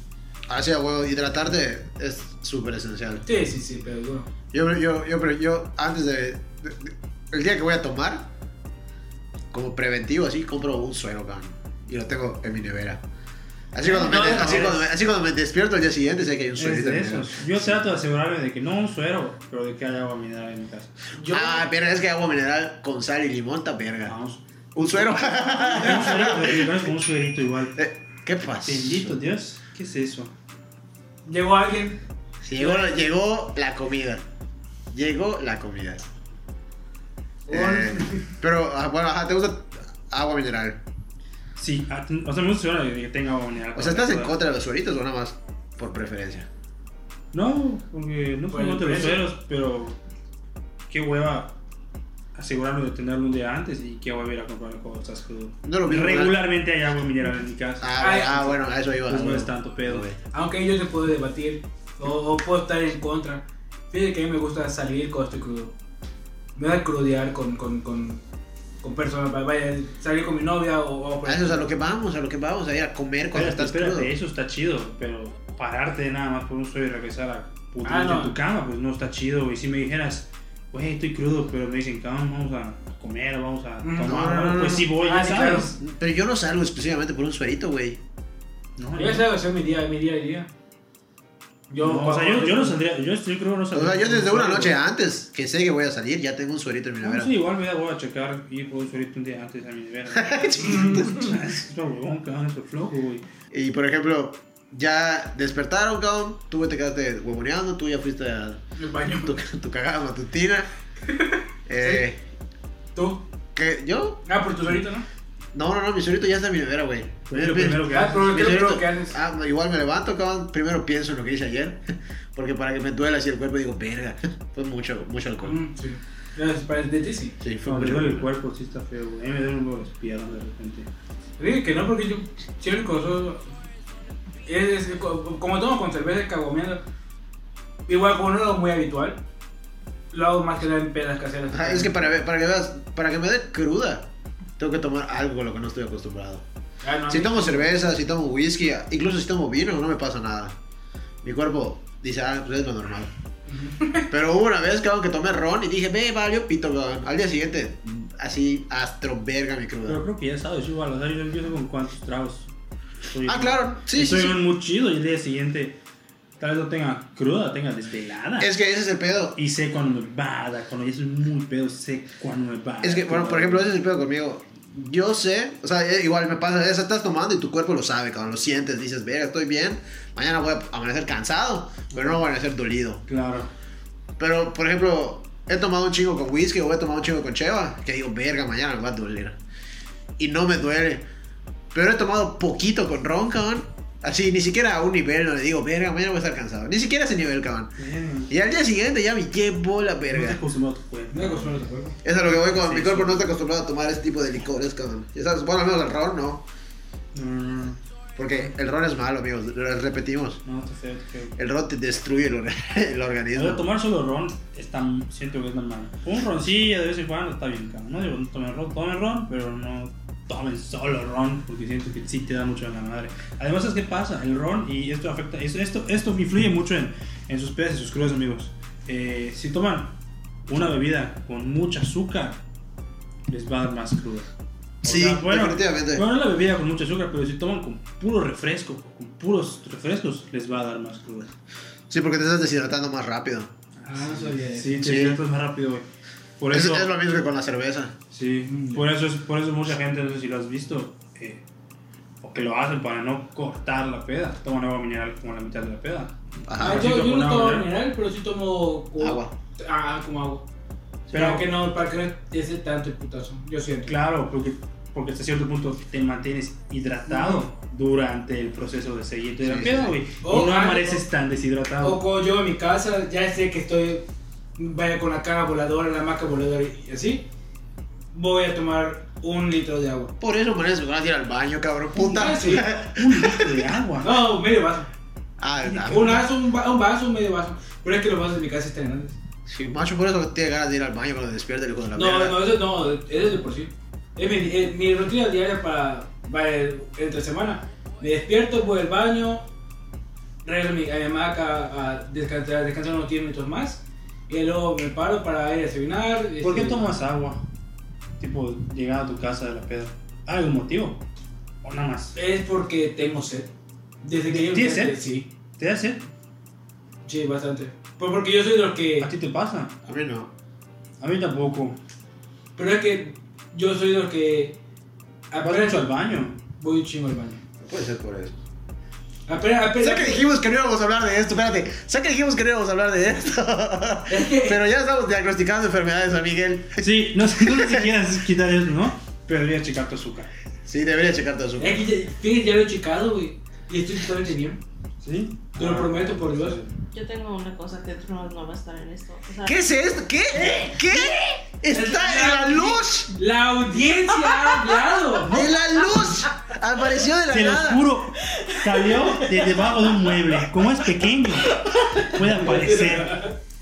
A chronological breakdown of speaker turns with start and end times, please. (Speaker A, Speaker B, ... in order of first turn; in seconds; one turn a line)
Speaker A: 0.5-3.2
Speaker B: 3.2-4.3
Speaker A: 4.5-8.3
Speaker A: 9.5-13.0
Speaker A: 13.7-17.8
Speaker B: 13.8-14.9
Speaker C: 14.1-14.6
Speaker C: 16.6-20.9
Speaker B: 21.1-21.7
Speaker A: 21.3-24.2
Speaker C: 24.1-27.8
Speaker A: 24.8-26.8
Speaker A: 27.8-29.2
Speaker C: 28.6-30.3
Speaker B: 31.2-32.0
Speaker A: 32.4-34.2
Speaker B: 32.6-33.0
Speaker A: 34.9-36.0
Speaker B: 37.5-38.3
Speaker A: 37.5-40.8
Speaker C: 41.6-44.4
Speaker A: 43.8-46.5
Speaker C: 47.3-50.0
Speaker B: 48.5-49.2
Speaker C: 50.9-51.5
Speaker C: 52.4-60.1
Speaker A: 55.6-56.4
Speaker A: 57.8-60.2
Speaker B: 58.0-58.4
Speaker B: 60.3-65.7
Speaker B: 66.6-68.2
Speaker B: 68.8-71.7
Speaker A: 71.2-74.1
Speaker C: 73.3-85.8
Speaker B: 77.8-78.4
Speaker B: 83.8-84.1
Speaker A: 84.0-84.9
Speaker B: 84.9-85.7
Speaker A: 85.7-88.0
Speaker C: 88.8-89.3
Speaker B: 89.0-90.5
Speaker B: 91.7-92.8
Speaker C: 91.8-94.8
Speaker A: 93.7-97.3
Speaker C: 97.0-103.2
Speaker A: 100.1-101.3
Speaker B: 100.7-101.0
Speaker A: 103.5-110.7
Speaker B: 108.8-109.3
Speaker B: 111.1-112.0
Speaker A: 111.7-112.2
Speaker B: 112.9-113.2
Speaker A: 113.5-114.2
Speaker B: 114.2-115.1
Speaker A: 115.5-121.8
Speaker C: 117.3-118.4
Speaker B: 117.9-119.2
Speaker A: 122.3-125.6
Speaker B: 125.4-127.4
Speaker A: 127.4-128.3
Speaker C: 127.6-130.9
Speaker B: 131.4-133.4
Speaker B: 134.4-136.8
Speaker B: 137.9-139.2
Speaker B: 140.1-142.1
Speaker A: 141.5-144.1
Speaker A: 144.6-146.4
Speaker B: 146.8-147.7
Speaker A: 147.1-150.6
Speaker A: 151.2-153.1
Speaker B: 153.5-154.1
Speaker A: 154.1-160.0
Speaker C: 159.9-162.5
Speaker C: 163.1-165.8
Speaker A: 163.2-164.4
Speaker C: 166.4-168.5
Speaker A: 168.4-169.4
Speaker C: 169.4-173.7
Speaker A: 172.8-183.0
Speaker C: 183.1-183.5
Speaker A: 184.2-189.4
Speaker A: 190.2-191.0
Speaker A: 191.7-197.8
Speaker C: 197.8-198.3
Speaker A: 198.3-200.4
Speaker C: 200.1-201.6
Speaker B: 201.1-202.0
Speaker A: 202.0-206.4
Speaker C: 202.2-203.3
Speaker C: 207.1-207.8
Speaker A: 208.2-210.4
Speaker C: 210.4-211.3
Speaker A: 211.4-213.7
Speaker C: 213.3-232.4
Speaker C: 233.3-234.3
Speaker C: 234.8-241.3
Speaker A: 234.8-236.0
Speaker A: 241.9-243.5
Speaker C: 243.8-245.9
Speaker B: 243.9-244.9
Speaker A: 244.8-245.2
Speaker C: 246.4-246.9
Speaker A: 246.5-247.9
Speaker C: 248.1-251.4
Speaker B: 248.5-248.8
Speaker C: 252.2-257.7
Speaker A: 256.5-256.9
Speaker B: 256.6-260.4
Speaker A: 259.0-259.3
Speaker C: 261.1-261.5
Speaker B: 261.1-263.9
Speaker C: 263.9-272.0
Speaker B: 267.1-267.4
Speaker A: 269.4-270.0
Speaker B: 270.2-271.0
Speaker B: 271.8-274.1
Speaker B: 274.6-277.2
Speaker B: 278.1-280.1
Speaker A: 280.2-283.6
Speaker B: 282.0-282.6
Speaker C: 282.4-284.2
Speaker B: 284.0-284.9
Speaker A: 285.4-286.2
Speaker B: 285.7-289.2
Speaker A: 289.5-292.4
Speaker B: 291.9-299.5
Speaker B: 300.4-306.8
Speaker C: 306.4-307.4
Speaker C: 308.2-311.0
Speaker C: 311.6-312.1
Speaker B: 312.1-313.5
Speaker B: 314.0-315.3
Speaker C: 314.3-315.0
Speaker C: 315.6-316.1
Speaker B: 317.1-319.1
Speaker C: 319.0-319.8
Speaker A: 319.9-320.3
Speaker C: 321.0-321.8
Speaker B: 322.6-324.6
Speaker B: 325.3-325.9
Speaker C: 325.4-326.4
Speaker B: 326.6-327.4
Speaker A: 327.6-328.4
Speaker B: 329.3-330.2
Speaker A: 329.8-337.9
Speaker B: 334.1-334.6
Speaker C: 336.8-340.3
Speaker A: 340.6-341.8
Speaker B: 341.6-344.6
Speaker C: 345.0-346.7
Speaker B: 345.6-346.6
Speaker D: 346.9-349.6
Speaker A: 349.4-353.2
Speaker B: 350.4-351.1
Speaker B: 351.7-355.4
Speaker D: 354.4-354.8
Speaker A: 355.2-357.9
Speaker C: 357.3-363.2
Speaker B: 362.1-363.3